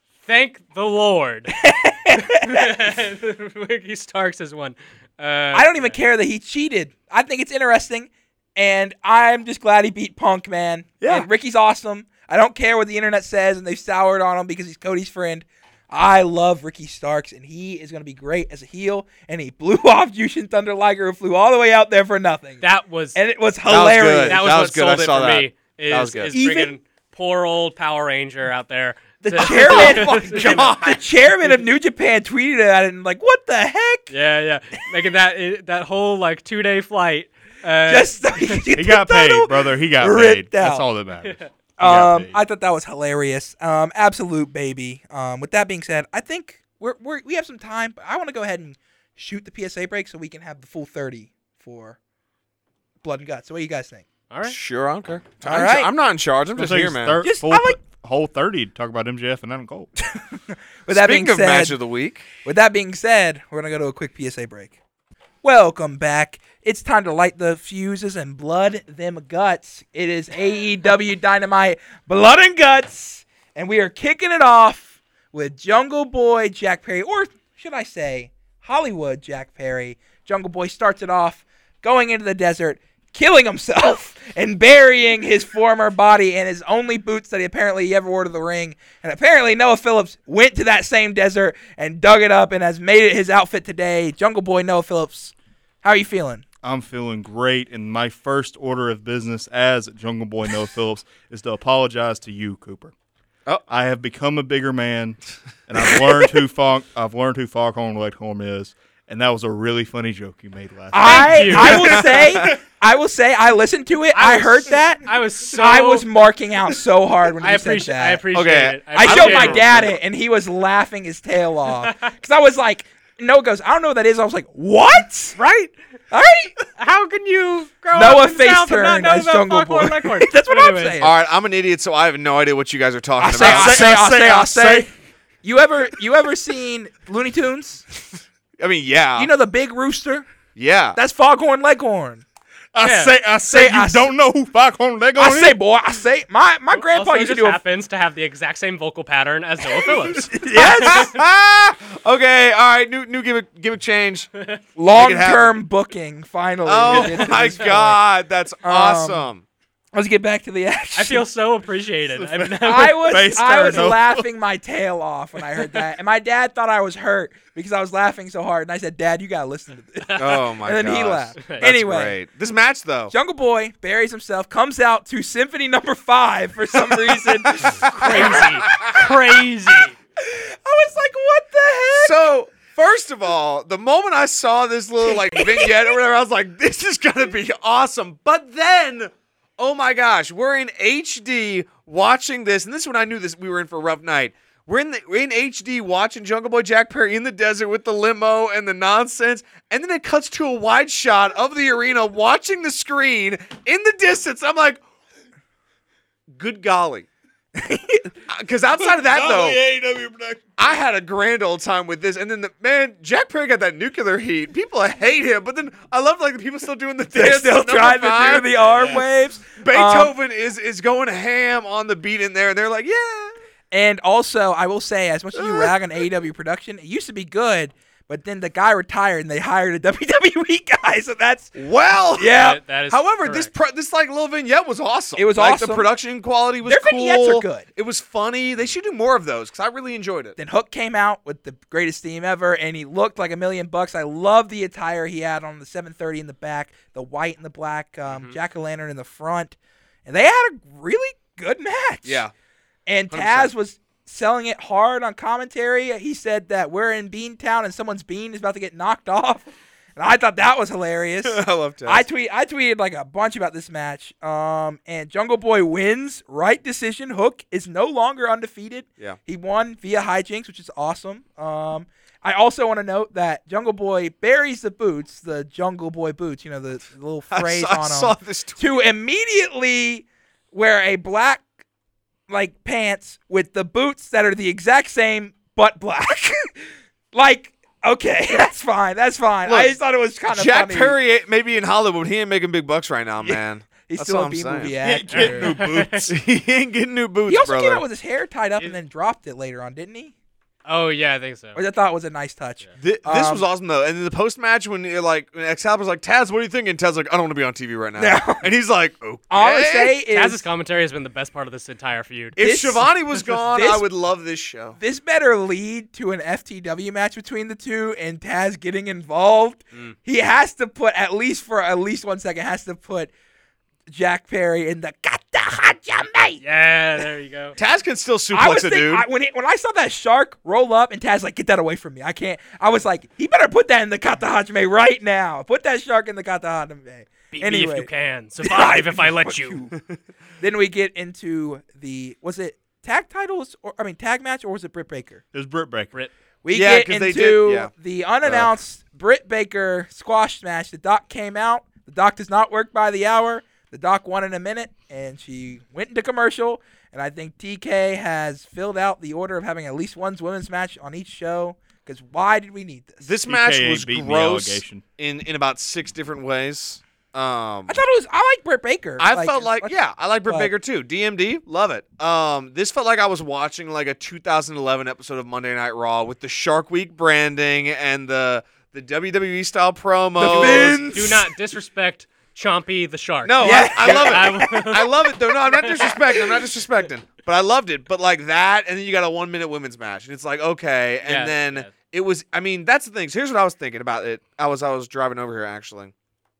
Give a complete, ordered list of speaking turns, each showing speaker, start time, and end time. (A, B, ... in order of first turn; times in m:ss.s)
0:00.2-0:01.6 A
0:01.6-0:02.9 B
0:02.1-0:06.0 A
0:05.5-0:22.6 B
0:11.0-0:11.2 C
0:22.6-0:23.2 A
0:23.1-0:24.4 B
0:23.7-0:26.3 C
0:24.3-0:30.7 A
0:26.3-0:26.7 B
0:29.2-0:34.1 B
0:29.4-0:31.0 C
0:34.1-0:38.6 A
0:37.9-0:40.8 B
0:38.7-0:42.4 D
0:41.2-0:41.5 A
0:41.8-0:52.0 B
0:53.0-0:54.0 B
0:54.3-0:54.6 A
0:54.5-0:57.2 C
0:55.4-0:55.9 B
0:56.6-0:59.9 D
0:57.2-0:57.8 B
1:00.1-1:01.8 B
1:00.9-1:02.3 C
1:02.4-1:04.8 B
1:05.4-1:36.4 B
1:36.6-1:42.9 D
1:43.7-1:52.0 D
1:50.9-1:58.2 B
1:51.0-1:52.0 A
1:51.9-1:52.5 C
1:54.1-1:56.1 A
1:57.4-1:59.7 A
1:58.3-1:59.9 C
1:58.9-2:05.4 B
2:01.8-2:02.1 A
2:05.4-2:05.7 A
2:06.1-2:06.5 B
2:06.7-2:11.0 A
2:07.9-2:11.1 B
2:11.0-2:14.0 C
2:13.2-2:14.9 B
2:13.4-2:14.9 D
2:15.4-2:17.8 B
2:18.6-2:19.3 C
2:19.2-2:20.3 B
2:20.6-2:21.0 C
2:20.9-2:22.2 B
2:22.7-2:25.6 D
2:22.8-2:23.1 A
2:23.4-2:24.1 B
2:25.2-2:27.6 B
2:26.7-2:31.1 A
2:29.8-2:31.1 B
2:30.5-2:34.3 C
2:34.3-2:34.6 A
2:34.8-2:38.0 B
2:34.9-2:35.6 C
2:36.6-2:39.4 C
2:36.9-2:37.6 A
2:38.6-2:39.3 B
2:39.9-2:41.2 B
2:40.9-2:43.8 A
2:42.4-2:44.2 D
2:42.6-2:52.2 B
2:50.2-2:53.1 C
2:51.4-2:51.6 A
2:53.1-3:02.2 B
2:57.4-2:58.8 C
2:57.8-2:59.9 A
3:02.0-3:24.8 C
3:05.0-3:06.0 B
3:26.3-3:27.1 C
3:27.5-3:28.1 B
3:28.3-3:29.6 C
3:28.7-3:30.5 D
3:30.6-3:38.9 C
3:37.1-3:40.1 B
3:38.6-3:39.0 A
3:39.6-3:43.3 C
3:43.7-3:51.5 B
3:45.3-3:45.7 C
3:51.5-4:00.4 C
3:52.2-3:52.6 B
3:52.3-3:53.5 A
3:55.2-3:55.9 B
3:56.6-3:57.7 B
4:00.4-4:12.2 B
4:08.1-4:08.4 A
4:12.0-4:12.3 C
4:12.9-4:41.4 B
4:13.1-4:13.5 C
4:21.2-4:22.0 C
4:37.3-4:38.6 C
4:42.3-4:51.0 B
4:49.4-4:49.8 C
4:50.3-4:54.8 C
4:53.2-4:55.5 B
4:54.8-4:56.1 D
4:55.1-4:56.1 A
4:56.1-4:57.8 C
4:57.3-5:00.1 B
5:00.6-5:01.6 A
5:01.5-5:03.4 B
5:02.8-5:09.9 C
5:08.0-5:08.5 B
5:09.3-5:10.4 B
5:10.1-5:12.4 A
5:12.4-5:13.8 B
5:12.4-5:14.8 C
5:14.8-5:23.1 B
5:23.9-5:26.4 B
5:26.4-5:27.6 A
5:27.6-5:29.0 C
5:28.3-5:37.9 B
5:37.3-5:39.6 A
5:38.4-5:39.8 B
5:40.4-5:45.2 B
5:45.3-5:45.9 D
5:46.4-6:03.1 B
5:46.5-5:47.7 C
5:48.2-5:48.5 C
6:03.0-6:07.8 C
6:03.2-6:04.8 D
6:07.7-6:10.5 B
6:09.0-6:20.9 C
6:20.2-6:21.3 B
6:20.3-6:24.9 A
6:23.2-6:35.9 C
6:23.4-6:24.8 B
6:25.5-6:26.4 B
6:25.5-6:25.9 A
6:31.0-6:31.7 A